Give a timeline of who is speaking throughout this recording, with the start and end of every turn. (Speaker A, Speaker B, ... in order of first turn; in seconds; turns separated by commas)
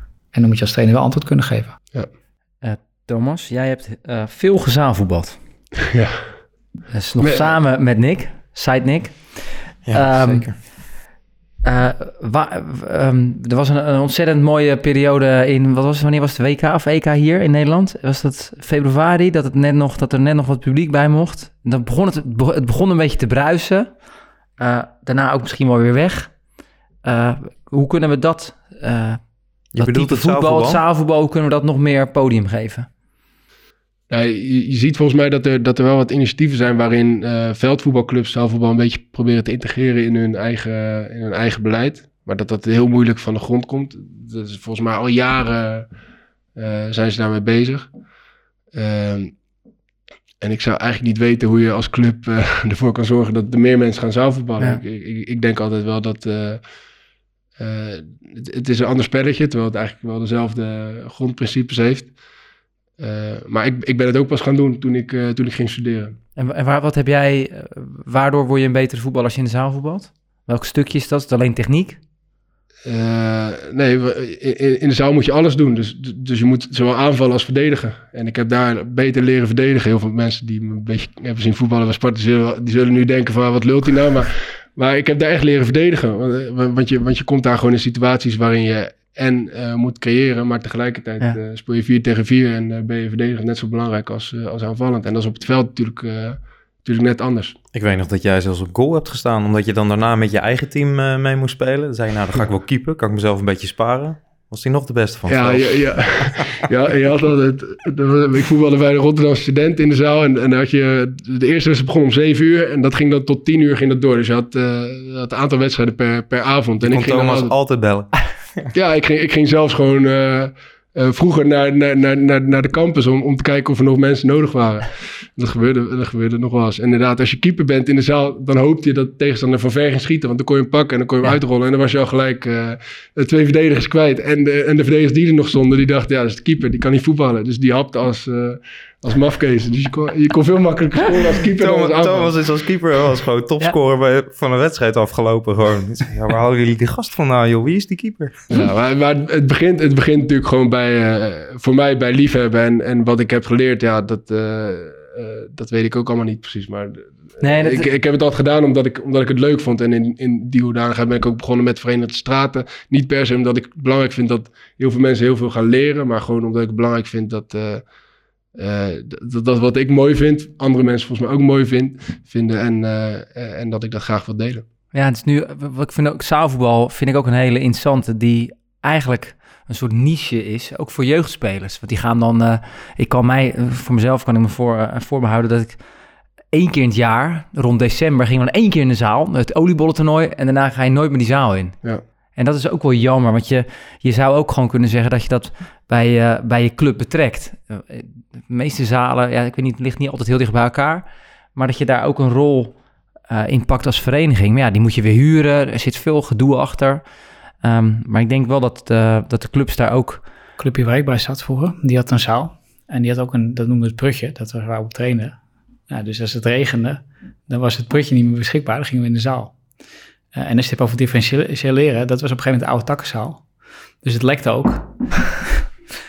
Speaker A: 0.3-1.8, Speaker B: 2.6-5.4, Speaker C: 5.9-6.4, Speaker B: 6.9-10.7, Speaker C: 7.2-7.5, Speaker D: 9.8-10.6, Speaker B: 11.6-23.9, Speaker B: 24.6-26.4, Speaker B: 27.0-32.9, Speaker D: 29.7-30.8, Speaker C: 34.1-45.9, Speaker C: 46.5-47.9, Speaker C: 48.7-49.4, Speaker C: 50.4-56.6, Speaker C: 57.6-62.1, Speaker C: 63.0-66.2, Speaker B: 66.3-72.0, Speaker C: 72.8-97.5, Speaker D: 97.7-106.6, Speaker C: 105.3-117.5, Speaker D: 116.8-118.7, Speaker C: 118.7-142.3, Speaker D: 141.5-148.5, Speaker C: 148.5-167.8, Speaker B: 157.4-157.9, Speaker C: 168.5-174.6, Speaker B: 174.9-185.8, Speaker B: 186.5-191.8, Speaker B: 192.3-202.8, Speaker B: 203.3-207.0, Speaker B: 207.6-210.2, Speaker A: 210.6-215.4, Speaker A: 215.9-219.5, Speaker A: 220.3-223.4, Speaker A: 224.0-225.6